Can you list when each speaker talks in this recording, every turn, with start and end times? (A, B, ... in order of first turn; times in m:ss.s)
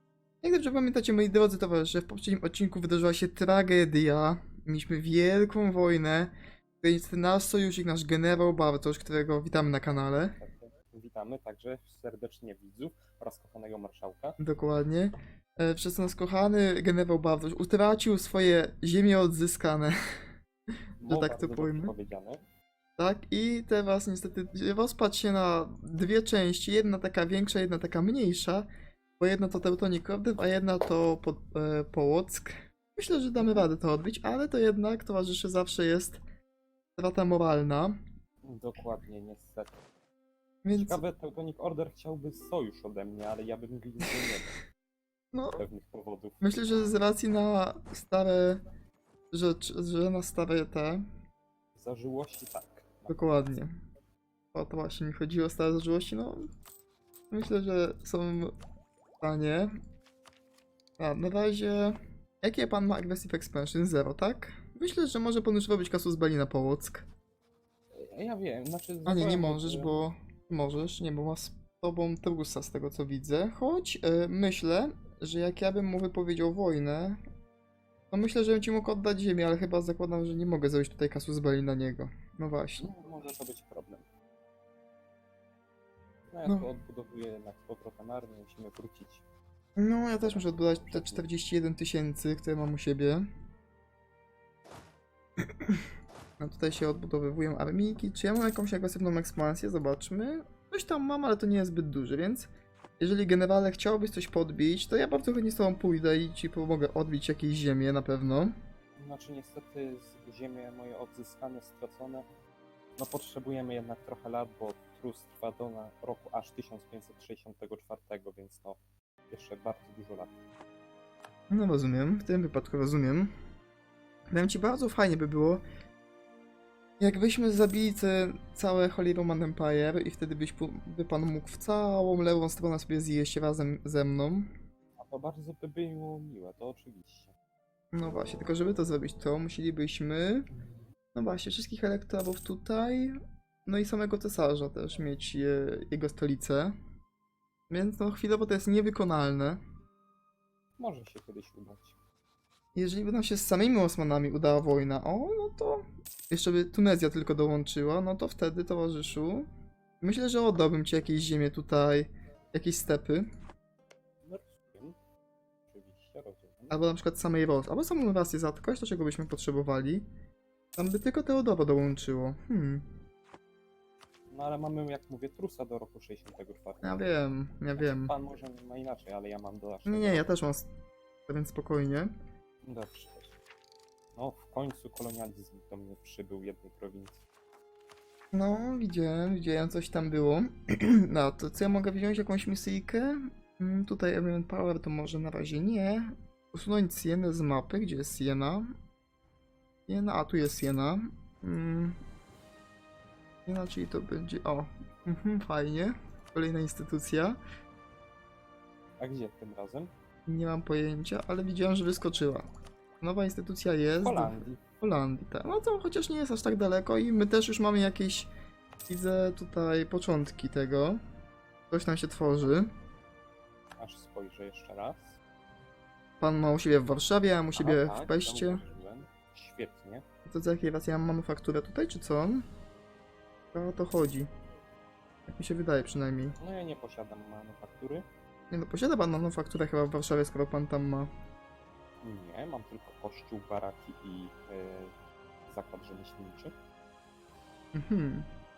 0:00.4-0:10.4 A
0:10.1-0:14.4 B
0:14.4-0:19.9 A
0:21.0-0:22.4 B
0:21.0-0:21.9 A
0:23.0-0:28.7 A
0:29.2-0:36.2 A
0:33.4-0:33.7 B
0:37.0-0:38.0 A
0:38.4-0:39.7 B
0:40.6-0:41.0 A
0:40.7-0:44.5 B
0:45.3-0:45.6 A
0:45.5-0:46.4 B
0:46.4-0:48.6 A
0:49.3-0:51.0 A
0:51.8-0:53.6 B
0:53.1-0:53.7 A
0:54.5-0:56.4 A
0:57.3-0:58.5 A
0:59.2-0:59.7 A
1:01.0-1:07.0 A
1:07.9-1:10.0 B
1:09.0-1:17.2 A
1:18.1-1:22.9 A
1:22.8-1:24.0 B
1:26.3-1:29.2 B
1:29.8-1:33.2 A
1:30.2-1:31.3 B
1:36.4-1:42.5 A
1:43.0-1:48.5 A
1:49.0-1:52.2 B
1:53.0-1:58.8 B
1:59.3-2:00.3 B
2:01.5-2:03.3 A
2:04.3-2:05.6 A
2:07.0-2:14.5 A
2:15.0-2:17.3 B
2:17.9-2:20.5 A
2:21.1-2:23.1 A
2:23.6-2:26.7 A
2:27.7-2:29.6 A
2:30.8-2:32.0 B
2:32.7-2:39.5 A
2:40.0-2:43.2 A
2:44.2-2:45.0 B
2:45.7-2:46.8 B
2:46.7-2:50.0 A
2:50.8-2:52.9 A
2:54.3-2:57.1 B
2:56.8-2:58.1 A
2:57.8-3:00.3 B
2:59.8-3:00.7 A
3:01.3-3:02.1 A
3:02.6-3:03.3 B
3:04.2-3:07.2 B
3:08.3-3:18.7 A
3:19.9-3:22.0 A
3:23.4-3:27.4 A
3:29.0-3:29.9 B
3:30.3-3:32.4 A
3:33.0-3:38.3 A
3:34.0-3:34.6 B
3:38.9-3:41.0 A
3:41.7-3:42.7 A
3:43.8-3:45.2 B
3:46.2-3:48.6 A
3:47.5-3:50.0 B
3:50.2-3:52.4 A
3:53.5-3:54.3 A
3:55.3-3:56.4 A
3:56.4-3:58.0 B
3:58.5-4:01.1 A
4:02.0-4:04.9 B
4:05.5-4:06.5 B
4:07.7-4:08.3 A